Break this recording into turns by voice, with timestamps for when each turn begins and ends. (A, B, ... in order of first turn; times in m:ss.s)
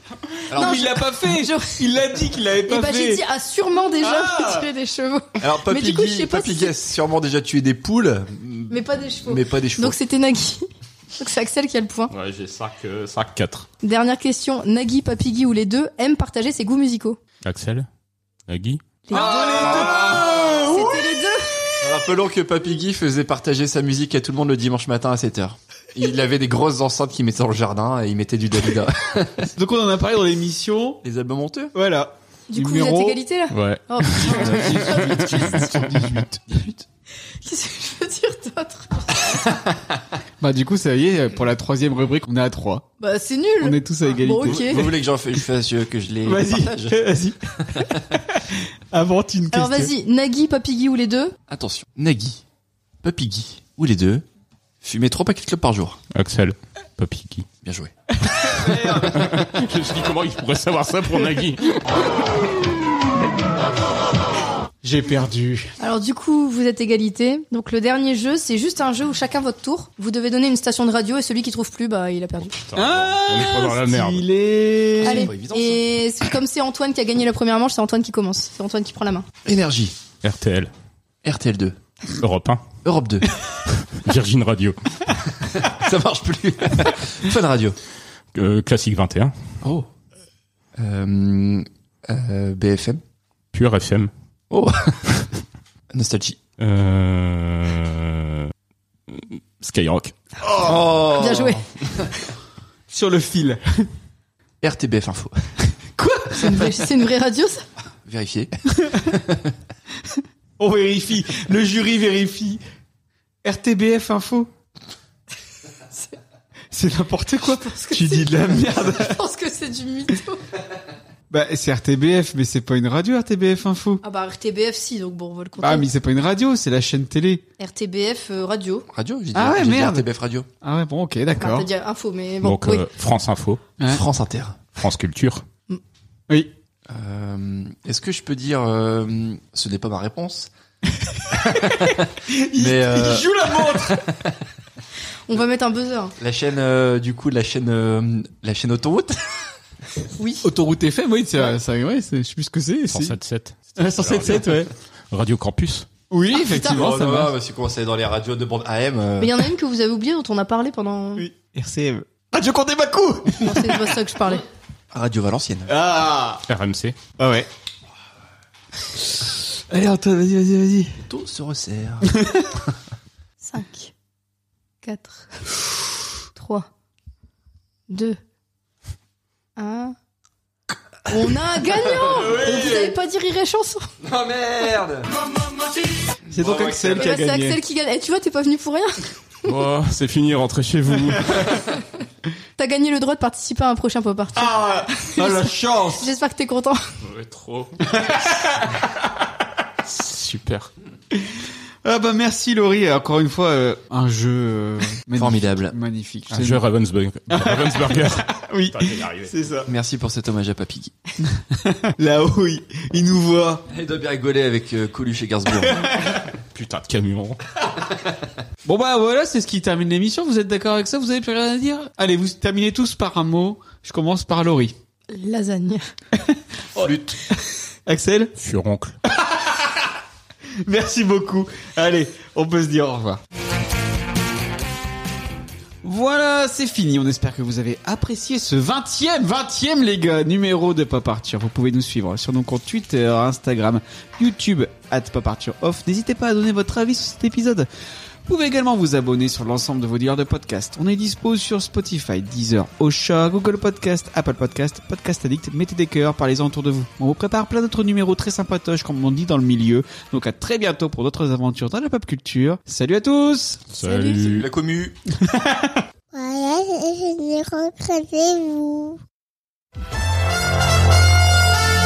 0:00.5-0:00.9 A
0:00.5-0:03.2 B
0:00.6-0:01.8 C
0:02.7-0:06.7 C
0:04.0-0:04.7 B
0:05.4-0:10.0 A
0:08.7-0:10.7 C
0:11.2-0:12.1 C
0:12.1-0:13.7 D
0:13.8-0:17.2 C
0:17.4-0:17.9 D
0:18.5-0:18.8 D
0:19.1-0:21.6 C
0:19.1-0:21.1 B
0:21.8-0:29.5 A
0:29.6-0:31.0 B
0:31.0-0:31.7 A
0:31.8-0:33.2 B
0:32.5-0:35.4 C
0:33.5-0:36.2 D
0:34.2-0:36.4 B
0:36.5-0:36.8 A
0:37.4-0:39.4 C
0:40.4-0:42.9 B
0:43.0-0:44.9 C
0:43.6-0:44.9 B
0:44.4-0:47.0 A
0:46.2-0:47.4 B
0:47.7-0:48.0 A
0:48.4-0:49.9 B
0:49.5-0:51.4 C
0:51.5-0:52.4 A
0:53.0-0:54.2 A
0:54.8-0:56.0 A
0:56.1-0:57.5 D
0:57.6-0:57.9 A
0:58.3-0:59.4 B
0:59.2-1:01.8 D
1:04.8-1:05.7 B
1:05.8-1:12.5 C
1:12.7-1:14.3 D
1:12.8-1:15.3 B
1:15.0-1:15.8 A
1:15.0-1:19.3 C
1:19.4-1:20.0 A
1:20.2-1:20.7 D
1:21.2-1:21.8 A
1:22.2-1:22.6 D
1:22.8-1:23.3 A
1:24.0-1:24.8 D
1:25.7-1:27.8 A
1:28.4-1:29.3 D
1:30.8-1:33.0 A
1:33.5-1:34.1 D
1:34.5-1:35.0 A
1:35.9-1:36.4 A
1:36.6-1:38.5 D
1:39.1-1:40.2 D
1:40.5-1:40.8 B
1:40.6-1:41.7 A
1:41.2-1:41.6 C
1:42.9-1:43.9 B
1:44.6-1:45.4 A
1:46.0-1:46.7 B
1:46.4-1:47.6 C
1:48.0-1:48.5 A
1:49.0-1:49.5 A
1:50.1-1:52.6 B
1:53.4-1:54.5 B
1:56.7-1:59.2 B
1:57.6-2:00.4 C
2:01.3-2:04.0 B
2:04.0-2:05.9 C
2:05.6-2:07.4 B
2:07.6-2:08.9 C
2:08.9-2:10.5 A
2:09.3-2:10.1 B
2:10.6-2:11.7 B
2:11.4-2:12.9 C
2:12.4-2:13.6 D
2:13.9-2:14.6 A
2:14.8-2:15.4 D
2:16.9-2:20.5 A
2:21.5-2:22.0 A
2:22.3-2:24.0 B
2:22.6-2:24.1 A
2:25.3-2:26.1 C
2:26.2-2:29.2 A
2:30.2-2:30.4 C
2:30.4-2:33.2 B
2:32.9-2:35.9 D
2:33.8-2:34.7 B
2:36.1-2:37.3 B
2:36.4-2:36.7 C
2:36.5-2:39.3 A
2:39.2-2:41.3 C
2:41.2-2:44.0 B
2:43.4-2:44.4 C
2:44.9-2:45.7 A
2:45.7-2:46.4 B
2:46.5-2:47.0 D
2:47.2-2:47.5 B
2:49.7-2:50.9 B
2:51.1-2:52.2 A
2:52.2-2:52.4 B
2:53.4-2:53.9 C
2:54.8-2:55.4 C
2:56.4-2:56.7 C
2:57.9-2:58.2 C
2:59.6-3:00.0 C
3:01.1-3:03.9 C
3:02.1-3:02.9 B
3:04.1-3:04.9 A
3:06.3-3:07.6 B
3:06.4-3:07.0 A
3:07.0-3:09.5 C
3:09.5-3:11.5 D
3:12.6-3:16.8 C
3:14.4-3:16.0 B
3:17.0-3:17.8 D
3:17.9-3:18.2 B
3:19.9-3:20.7 D
3:21.1-3:26.6 B
3:25.2-3:25.8 A
3:26.3-3:29.3 D
3:27.3-3:29.7 B
3:29.7-3:30.9 A
3:31.3-3:33.6 B
3:33.7-3:35.9 A
3:35.6-3:36.1 B
3:36.5-3:37.4 D
3:38.6-3:44.7 B
3:45.1-3:45.8 C
3:46.2-3:46.9 B
3:46.8-3:47.2 A
3:47.9-3:48.4 B
3:48.4-3:49.0 D
3:49.1-3:49.6 B
3:50.7-3:53.2 B
3:55.8-4:07.7 B
4:08.3-4:23.6 B
4:23.8-4:24.5 D
4:23.8-4:24.3 C
4:24.2-4:25.0 A
4:25.2-4:25.8 B
4:26.1-4:29.0 E